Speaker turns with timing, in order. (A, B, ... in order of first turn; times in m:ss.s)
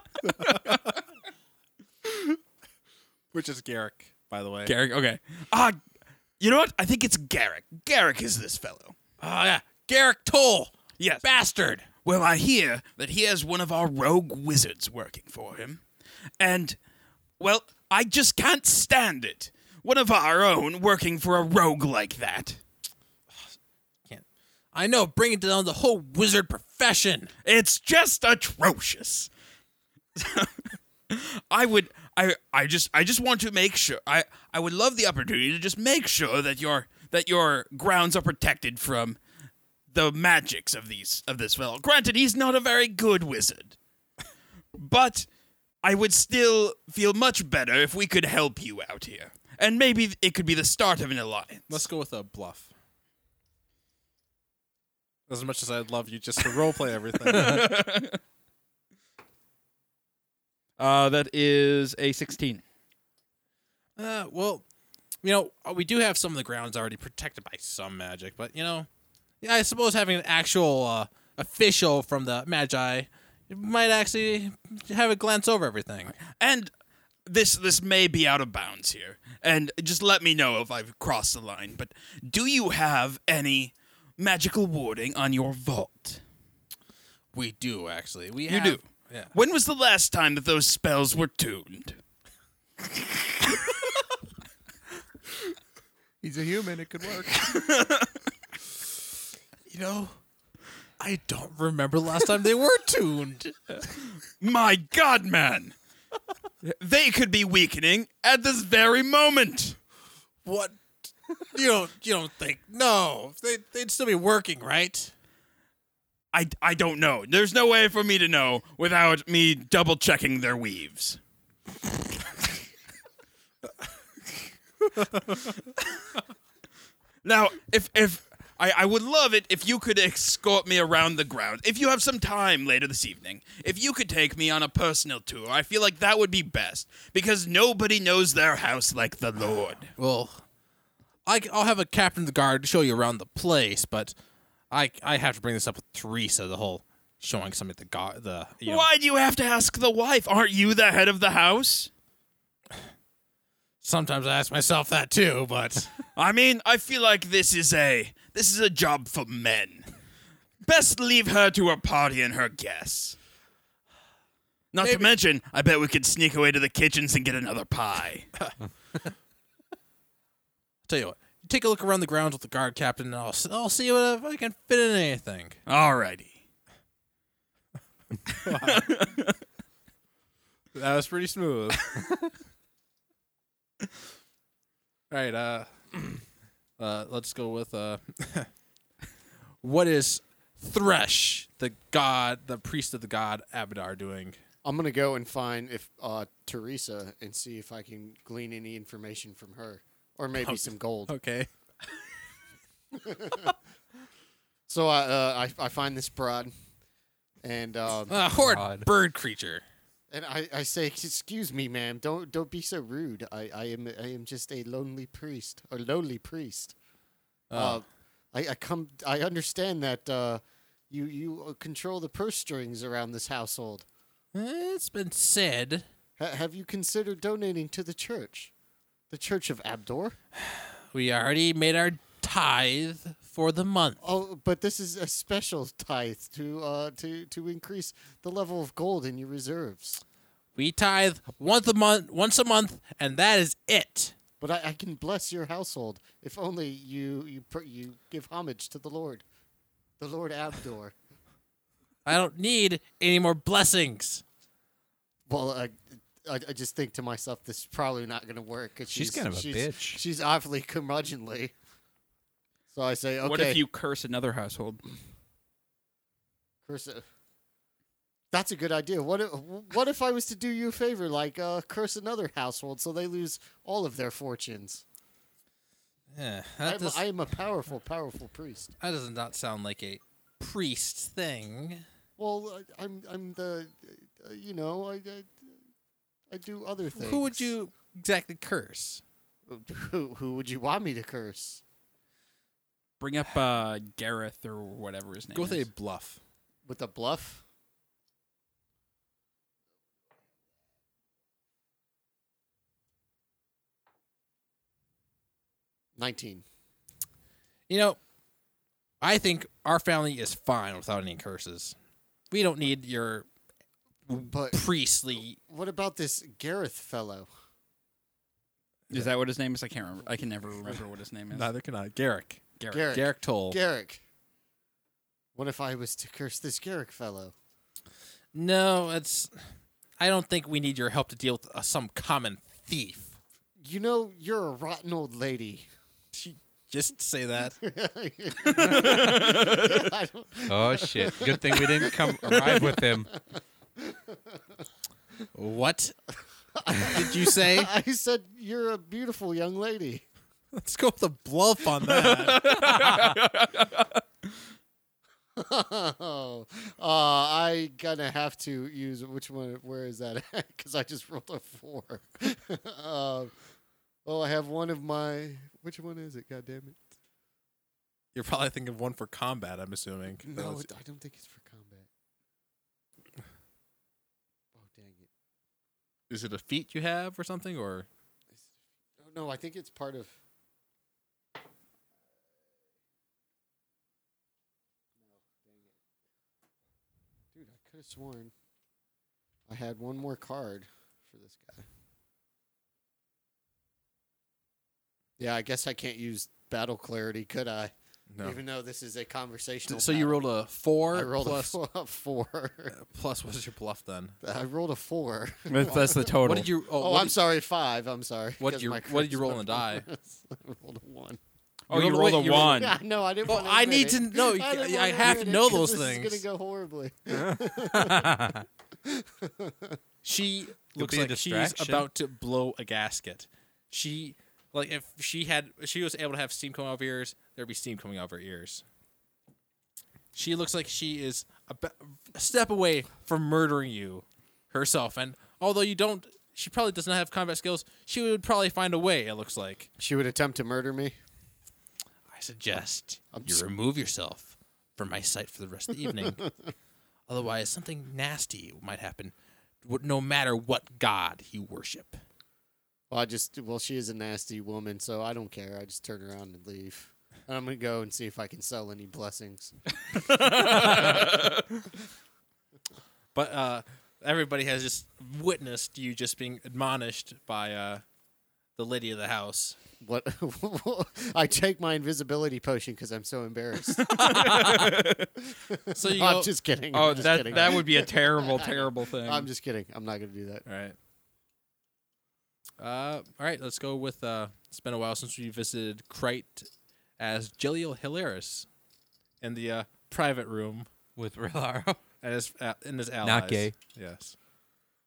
0:00.3-0:00.8 A
0:00.4-0:00.9 B
0:03.3-0:04.8 A
0:04.6-0:05.8 B
0:06.4-0:09.0 B
0:09.2-0:11.9 A
0:11.0-0:11.3 B
0:12.0-0:15.8 B
0:16.4-0:16.8 B
0:17.4-0:22.6 B
0:24.1-0:27.3 A
0:27.4-0:29.3 B
0:30.2-0:39.2 B
0:39.9-0:43.8 B
0:44.8-0:45.3 B
0:45.8-0:51.9 B
0:51.7-0:52.7 A
0:55.3-0:57.8 A
0:57.2-0:58.2 B
1:00.8-1:02.6 B
1:04.0-1:04.6 A
1:05.2-1:08.9 A
1:09.4-1:16.2 A
1:16.3-1:16.7 B
1:17.3-1:26.2 B
1:27.3-1:29.3 A
1:28.5-1:32.0 B
1:36.2-1:37.6 C
1:37.4-1:38.2 B
1:39.7-1:40.2 A
1:41.0-1:43.8 A
1:44.3-1:45.8 B
1:46.6-1:49.8 B
1:50.4-1:55.1 A
1:56.3-2:01.2 B
2:05.0-2:05.5 A
2:07.2-2:19.9 B
2:20.0-2:20.4 A
2:21.3-2:24.1 A
2:24.7-2:28.9 A
2:28.6-2:31.9 B
2:33.8-2:36.0 A
2:36.2-2:39.9 B
2:40.6-2:43.2 B
2:44.7-2:48.3 B
2:44.8-2:45.1 A
2:50.9-2:55.6 A
2:55.7-2:56.4 B
2:58.4-2:58.9 A
2:58.5-2:59.4 B
3:00.7-3:01.9 A
3:05.1-3:05.7 A
3:06.8-3:08.5 A
3:09.6-3:14.4 A
3:14.6-3:21.1 D
3:20.4-3:21.5 A
3:22.9-3:23.6 D
3:24.7-3:26.5 D
3:27.4-3:28.2 D
3:28.1-3:29.6 A
3:28.3-3:28.9 C
3:30.1-3:36.8 D
3:37.5-3:37.8 A
3:37.5-3:43.8 D
3:44.3-3:45.9 A
3:46.2-3:48.5 D
3:49.1-3:50.2 D
3:50.4-3:54.0 A
3:54.0-4:00.0 D
4:00.6-4:04.1 A
4:04.4-4:09.2 D
4:10.0-4:10.9 D
4:12.1-4:14.2 A
4:15.3-4:21.5 D
4:18.9-4:20.0 C
4:22.7-4:23.6 D
4:23.2-4:24.8 B
4:26.7-4:27.0 D
4:28.3-4:34.8 D
4:36.1-4:37.0 A
4:36.6-4:38.7 D
4:38.8-4:41.8 A
4:42.2-4:45.5 D
4:46.3-4:47.5 D
4:46.9-4:49.0 A
4:49.5-4:51.6 D
4:53.0-4:55.7 B
4:55.3-4:56.2 A
4:56.7-4:57.4 D
5:06.0-5:06.4 D
5:07.7-5:08.0 A
5:09.0-5:11.8 A
5:12.3-5:13.3 A
5:14.1-5:15.4 A
5:14.2-5:14.6 D
5:15.4-5:17.3 D
5:18.9-5:21.5 B
5:21.3-5:23.6 A
5:22.6-5:22.8 B
5:22.7-5:24.0 D
5:25.4-5:27.3 D
5:28.3-5:29.4 A
5:30.0-5:33.2 A
5:33.6-5:35.7 D
5:36.1-5:37.6 A
5:37.6-5:44.4 D
5:38.5-5:39.9 B
5:40.5-5:43.1 C
5:45.3-5:46.0 A
5:46.6-5:50.0 D
5:46.8-5:47.7 A
5:50.6-5:52.5 A
5:51.8-5:54.0 B
5:52.8-5:53.1 C
5:55.4-6:03.3 D
6:04.0-6:06.8 D
6:08.2-6:10.7 A
6:10.2-6:11.9 D
6:14.6-6:15.1 D
6:16.1-6:17.9 A
6:19.0-6:20.1 D
6:25.2-6:25.6 D
6:27.3-6:28.3 D
6:29.5-6:31.6 D
6:35.2-6:40.2 D
6:38.1-6:38.4 A
6:39.7-6:41.6 A
6:40.9-6:42.8 D
6:42.7-6:44.2 A
6:44.2-6:46.1 D
6:45.5-6:46.5 B
6:46.2-6:47.2 A
6:46.7-6:51.2 D
6:48.4-6:49.9 A
6:51.7-6:52.8 B
6:51.7-6:52.6 A
6:52.2-6:58.3 D
6:53.3-6:56.2 A
6:57.1-6:58.5 C
6:58.8-6:59.8 D
7:00.0-7:08.6 A
7:00.8-7:01.9 C
7:10.1-7:19.7 A
7:19.8-7:21.0 D
7:22.1-7:26.2 A
7:23.1-7:23.4 D
7:25.9-7:26.3 D
7:27.1-7:32.0 A
7:32.9-7:39.5 D
7:40.0-7:41.5 B
7:40.6-7:40.9 D
7:43.2-7:47.8 A
7:48.6-7:49.6 A
7:49.8-7:54.6 D
7:53.8-7:55.1 B
7:54.3-7:54.6 A
7:55.3-8:00.4 D
7:55.7-7:56.3 A
7:56.7-7:59.3 B
7:57.0-7:57.4 A
8:00.5-8:00.8 A
8:02.6-8:08.5 A
8:09.2-8:10.7 A
8:11.0-8:11.8 C
8:12.0-8:14.2 A
8:13.0-8:13.5 C